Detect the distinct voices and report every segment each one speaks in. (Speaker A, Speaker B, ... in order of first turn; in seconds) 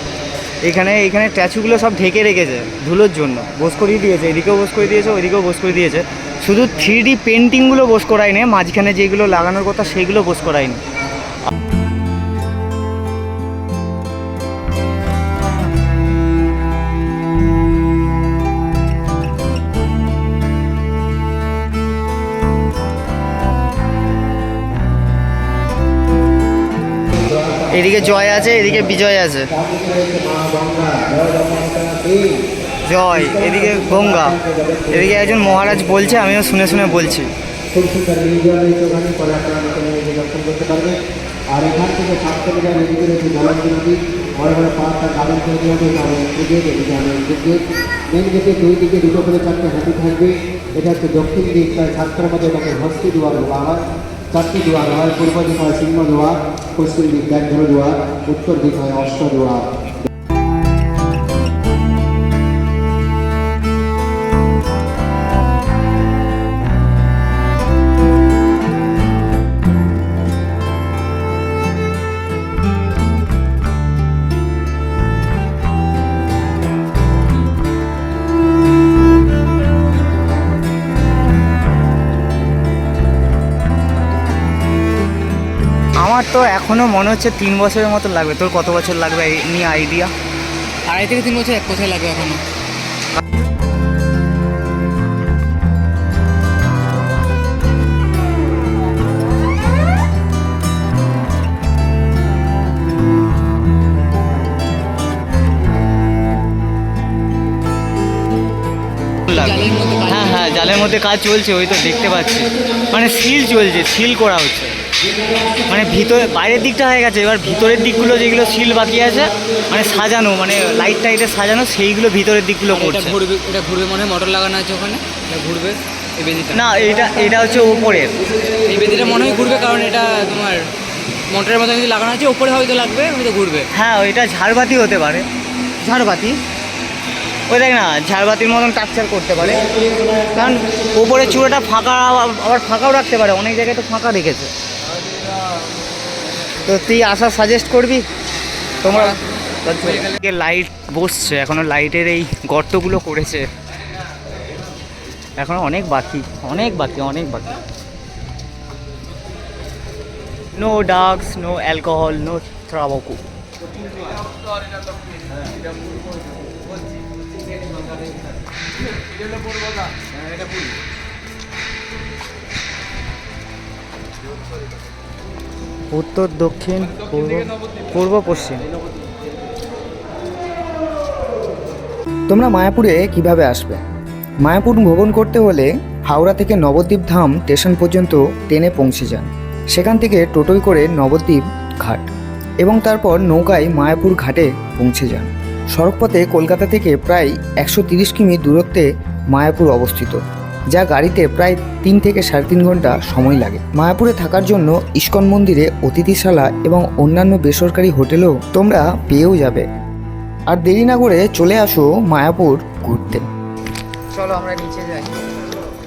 Speaker A: 0.6-10.8, 27.7-29.5, 32.9-37.3, 86.0-90.1, 90.9-92.3, 109.3-114.7, 115.7-123.2, 126.5-128.1, 133.7-135.2, 135.8-136.4, 137.5-139.7, 140.2-144.5, 146.7-148.0, 148.8-153.5, 155.4-157.6, 160.5-163.2, 175.9-178.6, 214.1-215.4
Speaker B: 29.6-32.5, 33.4-34.9, 35.4-36.0, 37.7-59.8
Speaker C: 109.3-110.9, 122.7-126.6, 128.7-130.6, 131.3-133.7
Speaker D: 182.3-183.8, 184.4-192.1, 192.6-200.2, 200.7-209.6, 210.5-213.3